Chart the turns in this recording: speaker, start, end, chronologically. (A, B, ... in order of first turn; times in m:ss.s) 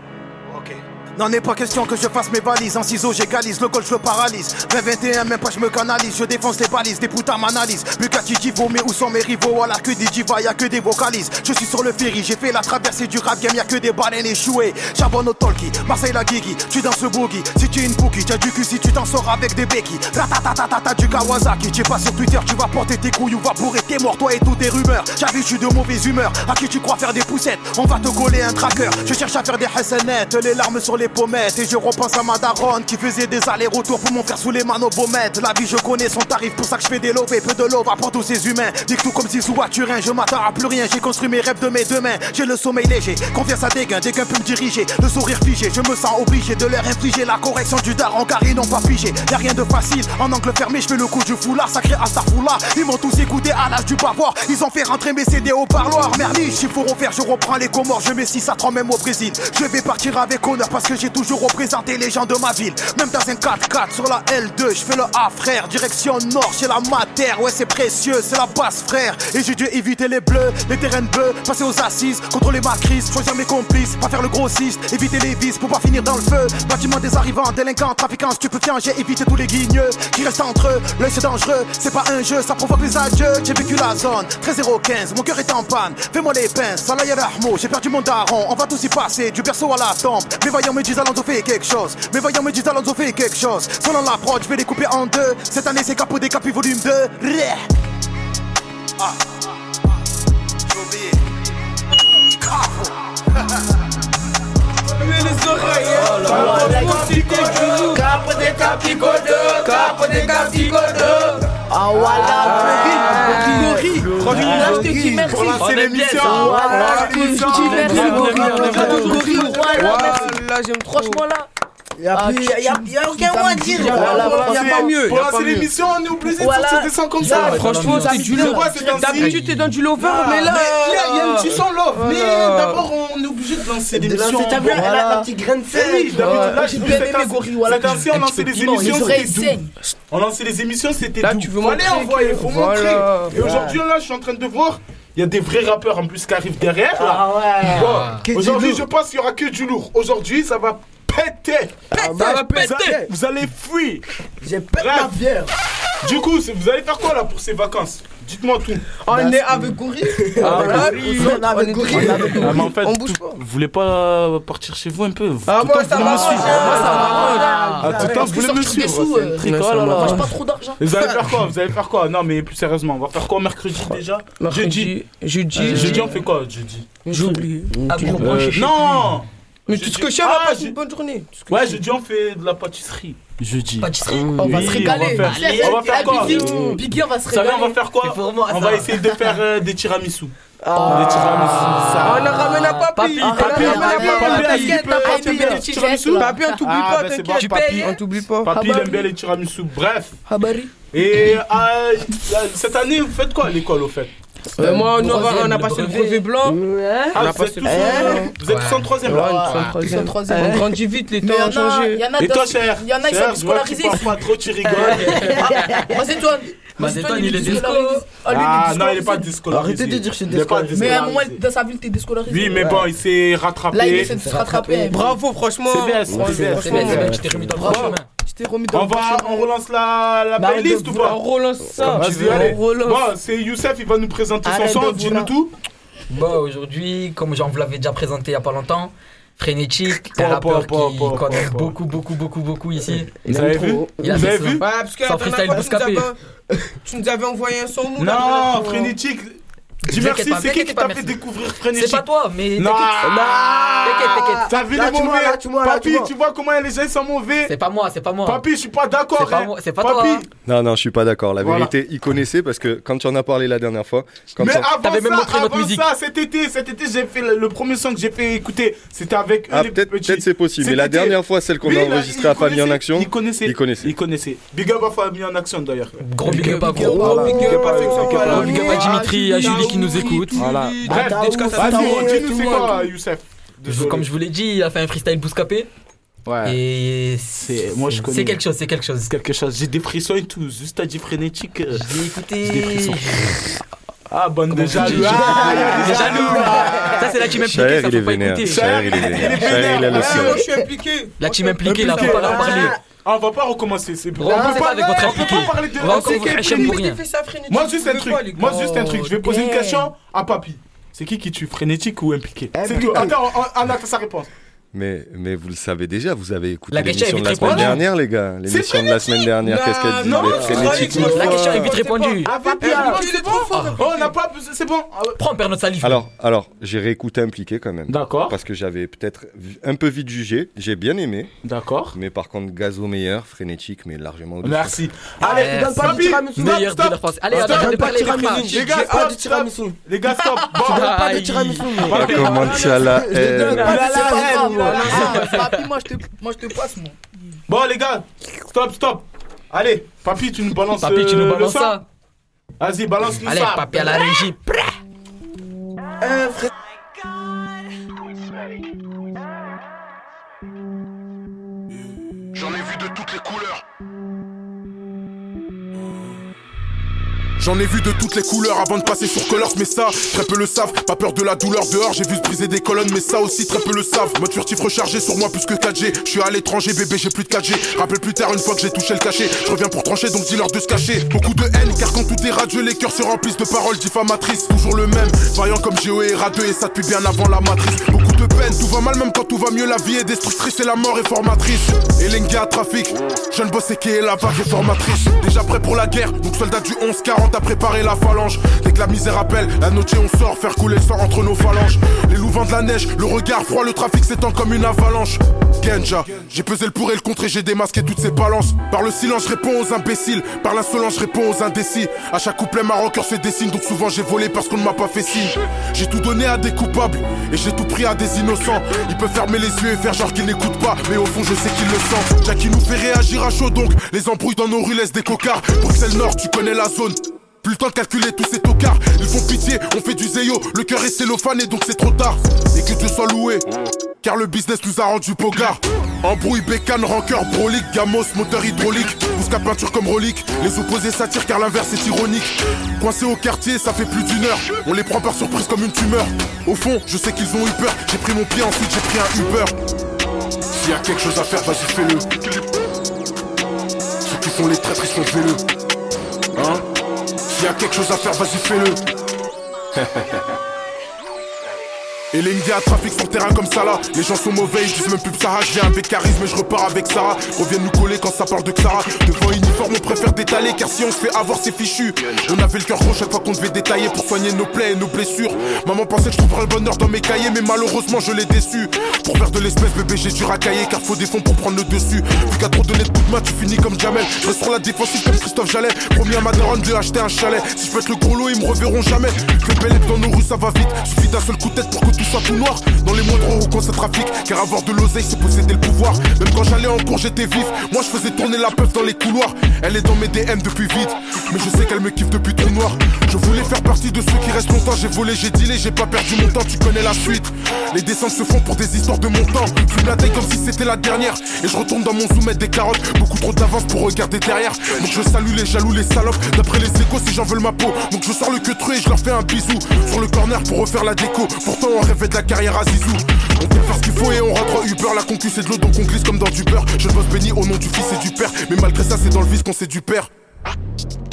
0:00.5-1:37.6 A
1:40.7-1:41.2 A
1:42.4-1:42.9 A
1:45.0-1:51.4 B
1:45.8-1:51.1 C
1:46.0-1:48.0 D
1:51.7-1:55.5 C
1:52.0-1:55.7 E
1:52.4-1:53.8 B
1:52.7-1:53.0 D
1:53.9-2:00.2 D
1:55.6-1:56.5 F
1:56.2-2:00.3 C
1:56.2-2:01.5 E
1:56.6-1:57.3 B
1:57.6-1:59.2 F
1:57.8-2:01.2 B
2:02.0-2:04.8 C
2:02.1-2:04.7 E
2:03.8-2:05.7 B
2:03.8-2:09.4 D
2:06.4-2:09.3 E
2:07.2-2:08.5 F
2:07.3-2:12.9 B
2:09.0-2:09.8 F
2:10.1-2:10.4 C
2:10.2-2:14.9 D
2:13.9-2:17.0 C
2:14.6-2:15.3 E
2:15.7-2:34.0 D
2:16.2-2:16.8 B
2:16.4-2:19.7 E
2:18.8-2:19.2 F
2:21.2-2:23.5 B
2:23.3-2:23.8 C
2:26.9-2:28.9 C
2:27.8-2:28.2 F
2:31.9-2:33.1 C
2:31.9-2:33.0 B
2:34.4-2:35.5 C
2:34.8-2:35.2 D
2:36.0-2:38.9 D
2:39.0-2:43.4 B
2:39.1-2:42.7 C
2:40.4-2:47.2 D
2:45.5-2:47.8 B
2:46.0-2:48.4 C
2:46.5-2:50.9 E
2:46.8-2:47.9 F
2:47.8-2:55.0 D
2:49.4-2:50.4 B
2:54.4-2:56.2 B
2:55.5-2:57.4 D
2:55.6-2:56.1 F
2:57.0-2:58.2 B
2:57.7-2:58.7 C
2:57.9-2:58.8 F
2:58.2-3:00.8 D
2:59.7-3:01.8 B
3:01.4-3:10.3 D
3:03.8-3:06.0 F
3:04.1-3:04.8 C
3:04.4-3:07.8 E
3:05.3-3:06.7 C
3:08.1-3:08.9 F
3:10.6-3:11.6 C
3:10.8-3:11.7 E
3:10.8-3:15.1 F
3:10.8-3:12.4 D
3:12.0-3:15.4 B
3:13.2-3:15.4 C
3:13.3-3:17.9 D
3:13.6-3:16.7 E
3:16.2-3:18.5 B
3:17.4-3:18.0 F
3:18.5-3:20.2 D
3:18.5-3:19.1 E
3:20.3-3:20.7 E
3:20.9-3:24.1 D
3:24.6-3:26.6 B
3:24.6-3:26.2 F
3:26.5-3:28.3 C
3:27.1-3:28.3 B
3:27.1-3:29.4 D
3:28.4-3:29.0 F
3:29.1-3:30.6 C
3:29.1-3:32.1 B
3:29.5-3:34.2 E
3:32.2-3:35.4 D
3:34.7-3:35.9 C
3:35.4-3:39.3 E
3:36.8-3:38.0 F
3:38.3-3:41.4 D
3:39.5-3:41.2 C
3:40.7-3:42.8 E
3:42.3-3:44.2 D
3:42.6-3:42.8 C
3:43.7-3:45.2 E
3:43.9-3:44.9 C
3:44.8-3:47.2 B
3:45.7-3:47.9 D
3:46.1-3:47.9 C
3:46.6-3:48.1 F
3:47.6-3:49.5 E
3:48.7-3:51.2 D
3:50.4-3:53.1 B
3:51.8-3:52.6 C
3:51.8-3:55.5 D
3:54.5-3:55.2 E
3:56.1-4:03.2 F
4:00.0-4:01.8 D
4:03.2-4:04.3 C
4:03.2-4:04.6 D
4:04.0-4:06.1 F
4:04.6-4:06.2 B
4:06.8-4:08.9 B
4:08.0-4:17.5 D
4:09.8-4:13.0 F
4:13.0-4:16.1 C
4:13.8-4:14.5 F
4:17.5-4:18.4 F
4:18.2-4:20.2 D
4:19.2-4:20.2 F
4:20.4-4:24.7 G
4:21.4-4:21.7 D
4:24.4-4:44.1 D
4:24.8-4:25.8 F
4:29.5-4:33.9 G
4:36.2-4:40.4 F
4:36.2-4:42.8 B
4:37.0-4:38.2 C
4:40.8-4:42.6 C
4:41.6-4:42.7 E
4:43.7-4:45.7 F
4:46.3-4:46.6 D
4:46.4-4:49.1 F
4:47.4-4:48.4 D
4:49.0-4:53.4 D
4:51.7-4:53.5 F
4:54.1-4:57.3 D
4:54.5-4:58.9 F
4:54.9-4:57.1 C
4:57.4-5:00.4 G
4:58.4-5:00.5 D
4:59.4-5:02.6 B
5:01.2-5:02.8 F
5:01.6-5:06.7 D
5:02.2-5:02.8 C
5:04.2-5:07.0 F
5:04.3-5:04.7 C
5:05.0-5:09.1 B
5:07.5-5:14.3 D
5:09.1-5:09.9 E
5:12.5-5:13.2 C
5:14.7-5:21.6 G
5:16.7-5:17.8 F
5:17.2-5:17.8 D
5:18.5-5:19.3 D
5:19.4-5:24.1 B
5:20.0-5:25.2 D
5:20.3-5:21.4 C
5:20.6-5:22.7 F
5:22.4-5:23.0 E
5:23.5-5:23.9 F
5:25.2-5:26.0 F
5:25.8-5:31.3 G
5:27.9-5:28.4 D
5:31.4-5:32.0 D
5:31.9-5:34.8 G
5:34.4-5:45.3 D
5:35.2-5:39.8 C
5:35.2-5:38.6 F
5:40.5-5:41.9 F
5:40.6-5:44.8 C
5:41.9-5:43.8 G
5:43.4-5:47.0 E
5:45.0-5:45.6 F
5:47.5-5:51.8 D
5:50.8-5:51.8 F
5:52.6-5:54.2 D
5:53.2-5:54.7 F
5:56.0-5:56.5 C
6:02.4-6:03.6 H
6:07.4-7:13.4 H
7:14.0-7:29.6 H
7:30.6-7:32.6 H
7:34.1-7:35.4 H
7:36.4-7:36.6 H
7:37.3-7:38.8 H
7:42.1-8:50.1 H